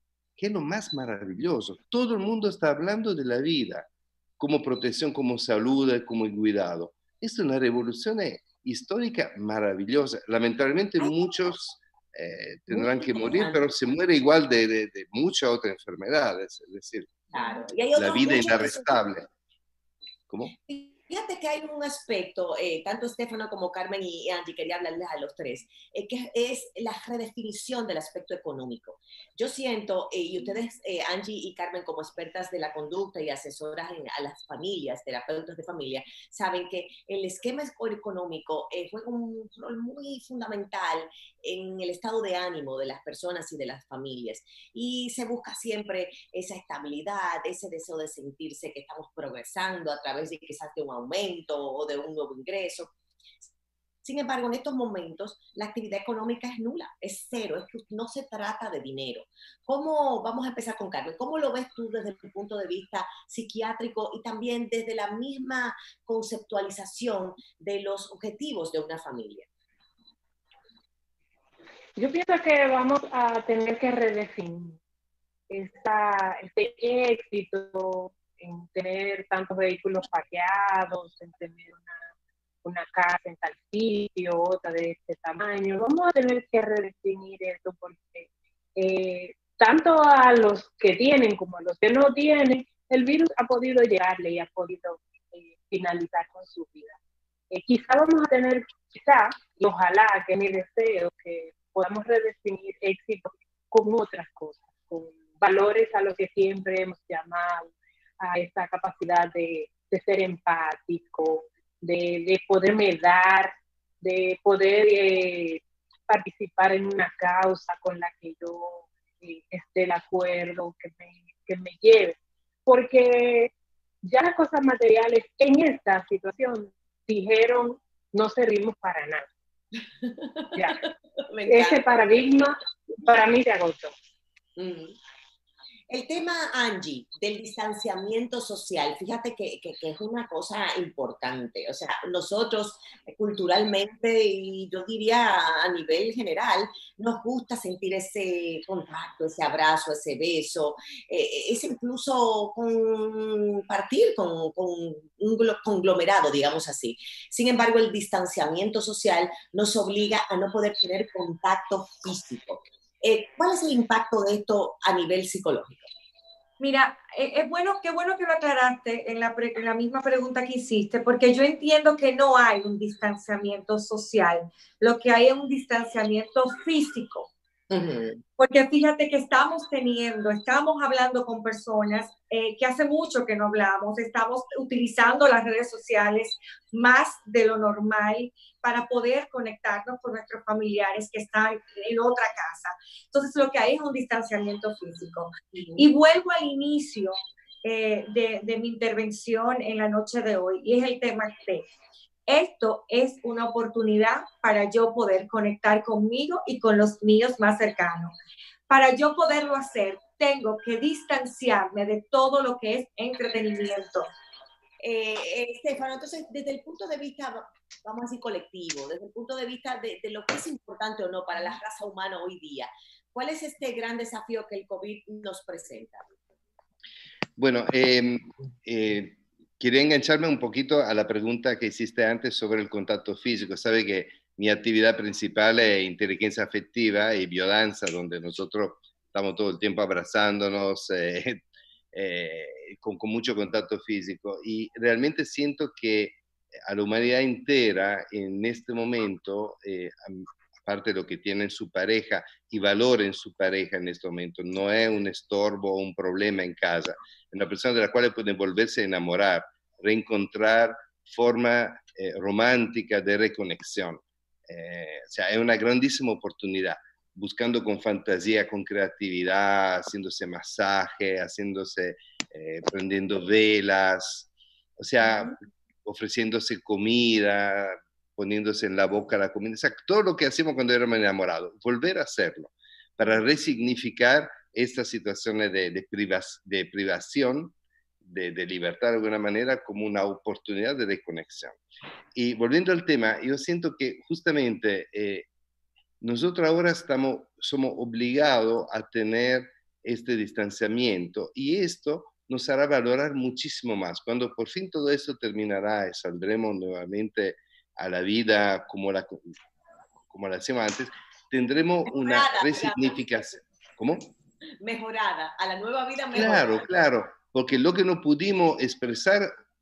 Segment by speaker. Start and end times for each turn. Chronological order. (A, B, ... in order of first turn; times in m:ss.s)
0:00.4-0:03.9 A
0:04.4-0:17.1 A
0:12.7-0:13.6 B
0:17.3-0:19.0 B
0:17.9-0:19.3 A
0:20.3-0:20.5 A
0:20.7-0:52.9 B
0:54.0-1:09.5 B
1:12.0-1:14.8 C
1:15.5-1:22.0 C
1:22.6-1:37.0 C
1:37.5-2:03.5 C
2:04.0-2:09.3 C
2:10.0-2:10.7 B
2:10.5-2:10.8 C
2:11.3-2:11.9 B
2:11.4-2:13.9 C
2:14.6-2:15.0 B
2:15.9-2:45.9 B
2:46.6-2:57.3 D
2:57.7-2:58.2 B
2:58.4-3:21.7 D
3:15.5-3:15.8 B
3:22.3-3:28.1 D
3:28.7-3:34.1 D
3:34.8-3:46.1 B
3:47.4-4:51.6 A
4:52.1-4:55.3 A
4:56.0-5:09.2 A
5:10.1-5:14.1 A
5:11.9-5:13.2 B
5:14.6-5:16.8 B
5:16.1-5:19.3 A